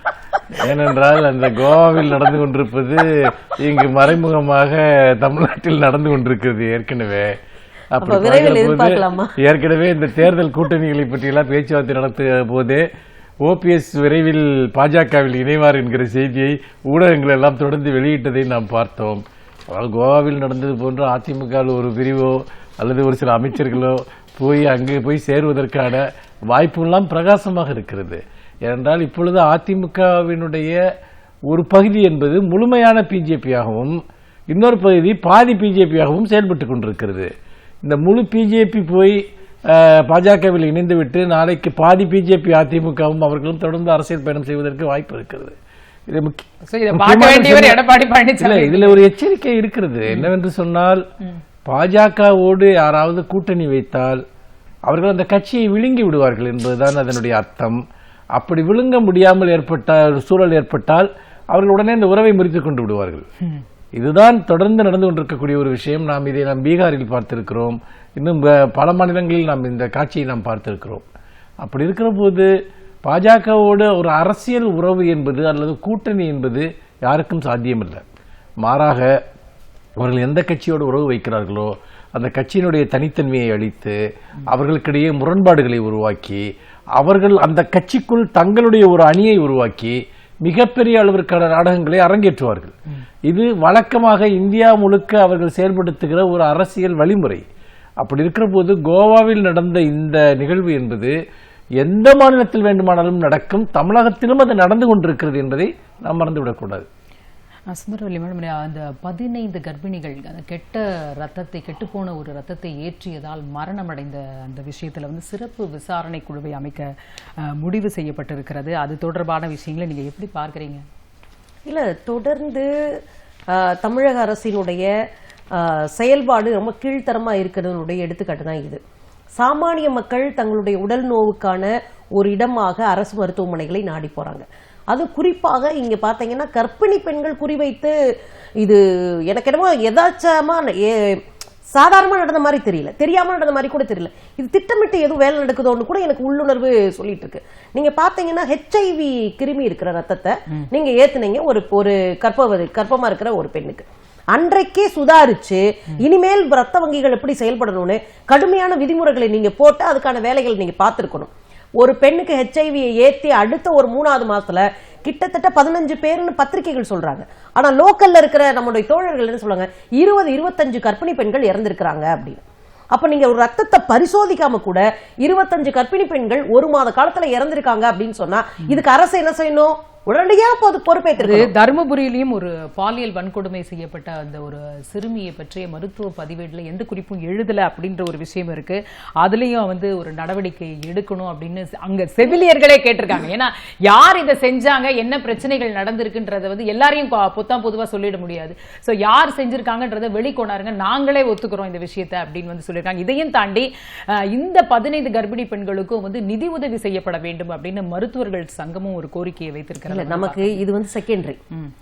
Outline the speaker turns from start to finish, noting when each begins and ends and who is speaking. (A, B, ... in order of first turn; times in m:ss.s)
0:00.5-0:07.3 A
0:07.9-0:12.8 A
0:08.0-0:09.3 B
0:13.4-0:30.8 A
0:31.5-0:34.0 A
0:34.5-0:37.3 A
0:37.8-0:45.6 A
0:46.1-0:47.8 A
0:46.7-0:49.0 C
0:48.4-0:51.0 A
0:51.6-0:54.2 A
0:54.9-0:57.8 A
0:58.4-1:03.2 A
1:04.0-1:11.0 A
1:11.6-1:12.5 A
1:13.0-1:18.0 A
1:18.6-1:19.1 A
1:20.0-1:24.0 A
1:24.5-1:26.4 A
1:27.0-1:32.7 A
1:33.3-1:37.4 A
1:38.0-1:41.1 A
1:41.8-1:46.8 A
1:47.7-1:56.9 C
1:57.4-2:00.8 C
2:01.6-2:03.0 B
2:03.5-2:04.9 B
2:05.5-2:08.8 B
2:09.4-2:17.9 B
2:18.6-2:21.2 B
2:21.7-2:52.4 B
2:52.9-3:01.5 B
3:01.2-3:30.6 C
3:29.9-3:31.4 B